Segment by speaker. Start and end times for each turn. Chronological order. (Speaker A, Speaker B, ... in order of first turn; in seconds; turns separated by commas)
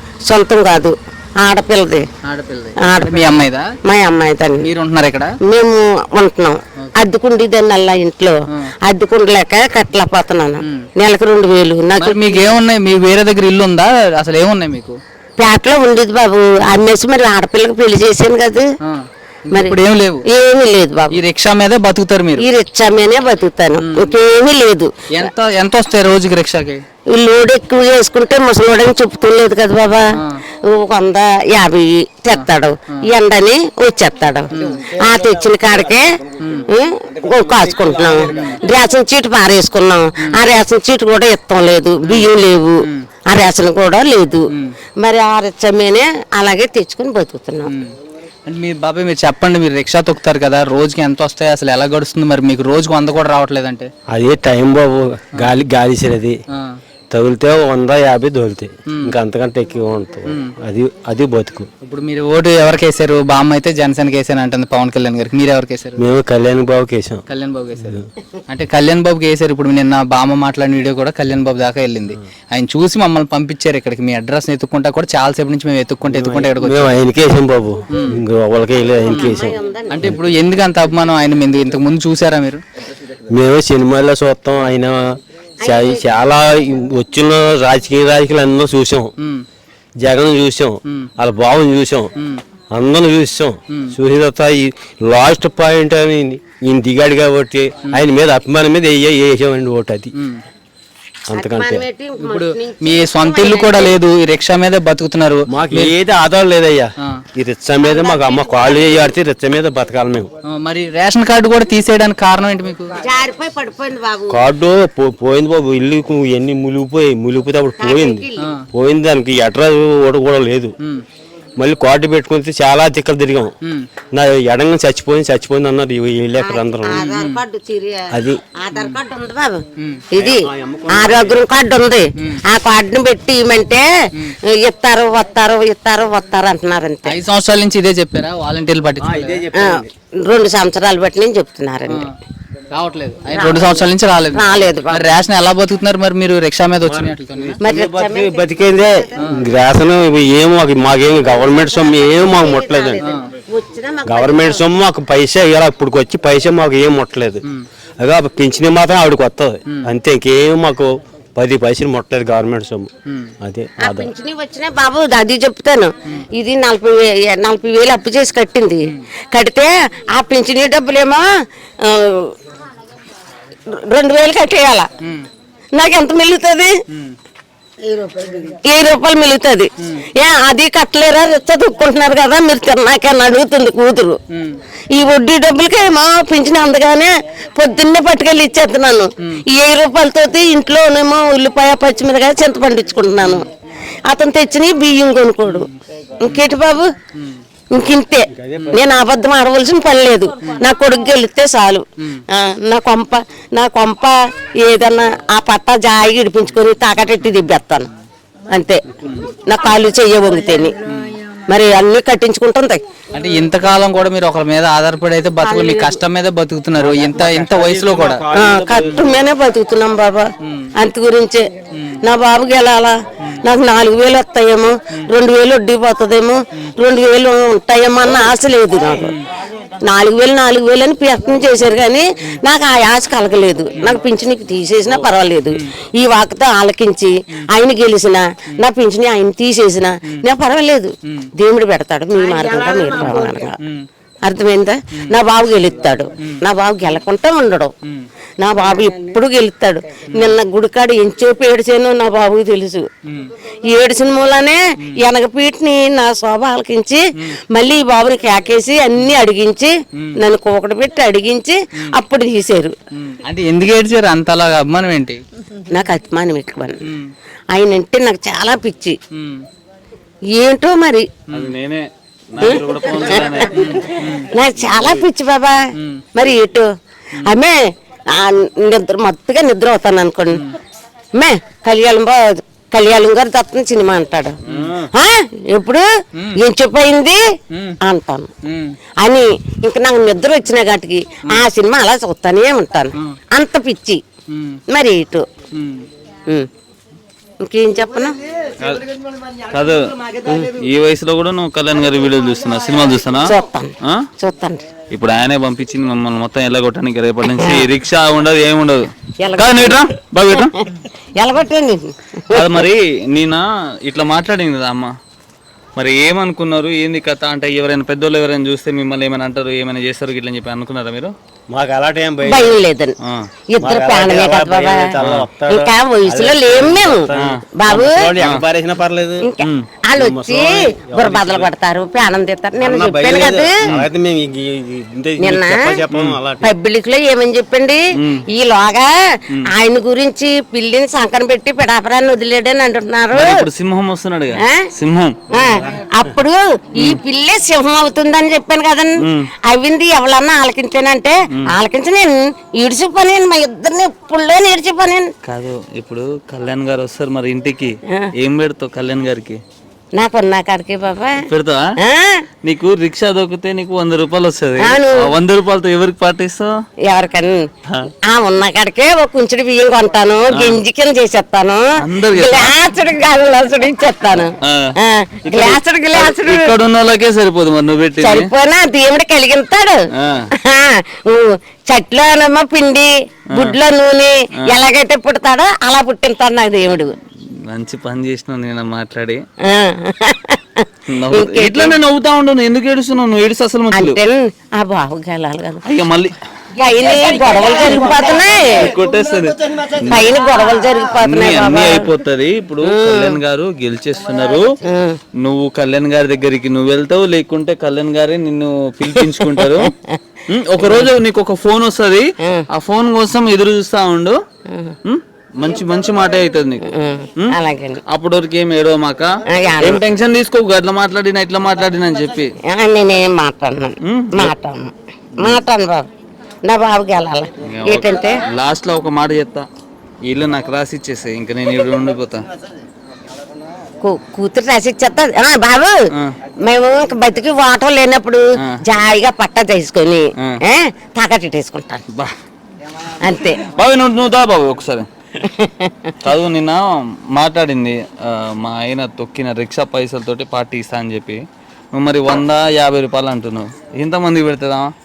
Speaker A: 0.3-2.0, Speaker B: 2.2-3.7, Speaker A: 2.8-4.7, Speaker B: 4.6-5.3, Speaker A: 5.4-12.5, Speaker B: 10.6-10.9, Speaker B: 12.0-15.0, Speaker A: 15.4-18.7, Speaker B: 18.8-20.2, Speaker A: 19.5-19.8, Speaker A: 20.3-21.2, Speaker B: 21.1-22.4, Speaker A: 22.4-25.3, Speaker B: 23.8-24.1, Speaker B: 25.1-26.8, Speaker A: 27.1-36.1, Speaker B: 30.2-30.4, Speaker B: 32.3-33.0, Speaker B: 34.5-34.9, Speaker B: 36.4-36.7, Speaker A: 36.6-44.5, Speaker B: 38.3-38.6, Speaker A: 45.0-47.7, Speaker B: 48.5-53.9, Speaker C: 54.1-56.4, Speaker B: 56.5-56.8, Speaker C: 57.1-61.7, Speaker B: 58.9-59.1, Speaker B: 60.3-60.5, Speaker B: 61.8-66.0, Speaker C: 66.0-67.2, Speaker B: 67.3-76.9, Speaker C: 76.1-80.2, Speaker B: 77.9-78.2, Speaker A: 79.0-80.2, Speaker B: 79.9-82.6, Speaker C: 83.3-89.1, Speaker A: 85.6-86.1, Speaker B: 89.2-89.4, Speaker C: 90.0-92.1, Speaker B: 92.2-92.4, Speaker C: 92.7-100.1, Speaker B: 100.1-100.4, Speaker C: 101.3-101.8, Speaker A: 101.3-104.0, Speaker B: 102.2-105.9, Speaker C: 105.5-110.3, Speaker A: 107.8-109.1, Speaker B: 110.5-112.9, Speaker A: 113.0-114.4, Speaker C: 114.3-120.7, Speaker A: 117.8-118.5, Speaker B: 118.4-118.6, Speaker C: 121.6-123.5, Speaker C: 124.1-127.1, Speaker A: 126.4-129.6, Speaker B: 126.9-127.4, Speaker C: 128.1-128.4, Speaker B: 129.8-130.0, Speaker A: 130.1-133.9, Speaker C: 130.2-131.4, Speaker A: 134.6-137.1, Speaker B: 137.1-139.4, Speaker C: 139.0-139.9, Speaker A: 139.5-142.1, Speaker B: 142.7-147.6, Speaker A: 143.3-145.1, Speaker C: 146.9-153.0, Speaker A: 147.6-149.1, Speaker A: 151.2-154.6, Speaker C: 154.1-157.4, Speaker C: 158.0-162.9, Speaker B: 159.7-159.9, Speaker B: 163.1-163.3, Speaker C: 163.4-164.1, Speaker A: 163.8-171.3, Speaker A: 171.8-172.3, Speaker A: 173.7-174.9, Speaker B: 175.0-175.3, Speaker A: 175.7-176.8, Speaker A: 177.9-184.2, Speaker B: 184.3-184.6, Speaker A: 184.9-193.5, Speaker A: 194.1-195.7, Speaker B: 195.5-195.7, Speaker A: 196.2-196.9, Speaker A: 197.7-207.9, Speaker C: 198.4-198.8, Speaker A: 208.5-210.7, Speaker B: 210.9-211.2, Speaker A: 211.5-212.8, Speaker B: 213.1-218.2, Speaker A: 215.4-216.0, Speaker C: 216.8-219.2, Speaker A: 218.3-221.5, Speaker B: 220.4-220.7, Speaker A: 222.0-229.1, Speaker A: 229.8-243.6, Speaker B: 241.0-241.3, Speaker B: 242.8-243.9, Speaker A: 244.2-247.7, Speaker A: 248.4-252.9, Speaker B: 250.1-250.3, Speaker B: 253.1-253.3, Speaker A: 253.7-262.8, Speaker B: 262.9-265.2, Speaker A: 265.7-266.8, Speaker B: 266.8-267.1, Speaker A: 267.5-269.0, Speaker B: 269.1-269.4, Speaker A: 270.3-271.1, Speaker D: 271.3-273.9, Speaker A: 272.4-275.6, Speaker B: 273.5-274.3, Speaker D: 274.6-275.1, Speaker B: 275.8-276.1, Speaker A: 276.1-276.7, Speaker A: 277.2-277.6, Speaker A: 278.1-280.5, Speaker A: 281.1-284.4, Speaker B: 284.5-284.8, Speaker D: 284.5-284.9, Speaker A: 284.9-285.9, Speaker A: 286.4-287.2, Speaker B: 287.5-287.8, Speaker A: 287.8-288.3, Speaker B: 288.4-288.8, Speaker A: 289.0-294.0, Speaker B: 294.3-294.6, Speaker A: 294.7-295.2, Speaker B: 295.5-295.9, Speaker A: 297.4-298.2, Speaker D: 298.6-298.8, Speaker D: 299.5-299.9, Speaker A: 300.2-300.5, Speaker D: 300.6-303.3, Speaker A: 303.2-304.7, Speaker D: 304.9-310.5, Speaker A: 307.3-307.6, Speaker A: 309.2-309.8, Speaker A: 310.4-312.6, Speaker D: 312.3-314.9, Speaker D: 315.8-321.1, Speaker C: 321.5-322.6, Speaker A: 322.2-322.9, Speaker A: 323.5-328.2, Speaker C: 323.6-329.3, Speaker D: 325.0-325.3, Speaker D: 327.1-327.4, Speaker A: 329.2-333.6, Speaker C: 329.9-331.5, Speaker C: 332.6-336.5, Speaker A: 335.2-335.8, Speaker D: 335.9-336.2, Speaker A: 336.4-343.5, Speaker D: 338.0-338.2, Speaker D: 343.1-345.2, Speaker A: 345.3-355.1, Speaker D: 349.0-349.3, Speaker D: 355.2-359.4, Speaker A: 360.0-361.2, Speaker D: 361.2-361.7, Speaker A: 361.8-362.2, Speaker D: 362.4-366.5, Speaker A: 364.6-365.1, Speaker A: 366.9-367.4, Speaker A: 368.1-376.5, Speaker D: 370.3-370.6, Speaker D: 371.8-372.6, Speaker D: 374.4-374.7, Speaker D: 375.2-378.3, Speaker A: 378.0-379.8, Speaker D: 380.0-380.3, Speaker A: 380.4-386.9, Speaker D: 387.5-389.2, Speaker A: 389.4-391.8, Speaker D: 390.9-394.0, Speaker A: 393.7-395.6, Speaker D: 395.6-396.1, Speaker A: 396.6-398.7, Speaker D: 398.5-400.1, Speaker A: 399.9-401.9, Speaker D: 401.0-404.5, Speaker A: 402.6-403.2, Speaker A: 404.6-405.0, Speaker D: 405.2-409.7, Speaker A: 408.9-410.0, Speaker D: 410.3-414.2, Speaker A: 410.6-410.9, Speaker A: 414.5-414.7, Speaker D: 414.8-416.6, Speaker A: 416.6-417.8, Speaker D: 417.9-422.3, Speaker A: 419.3-419.8, Speaker A: 422.5-425.9, Speaker D: 423.9-424.3, Speaker A: 426.4-428.2, Speaker D: 427.4-429.4, Speaker D: 430.0-432.2, Speaker A: 433.8-435.8, Speaker A: 436.4-441.8, Speaker A: 443.0-443.4, Speaker D: 443.4-444.9, Speaker A: 445.2-445.9, Speaker D: 446.0-451.2, Speaker D: 451.7-454.7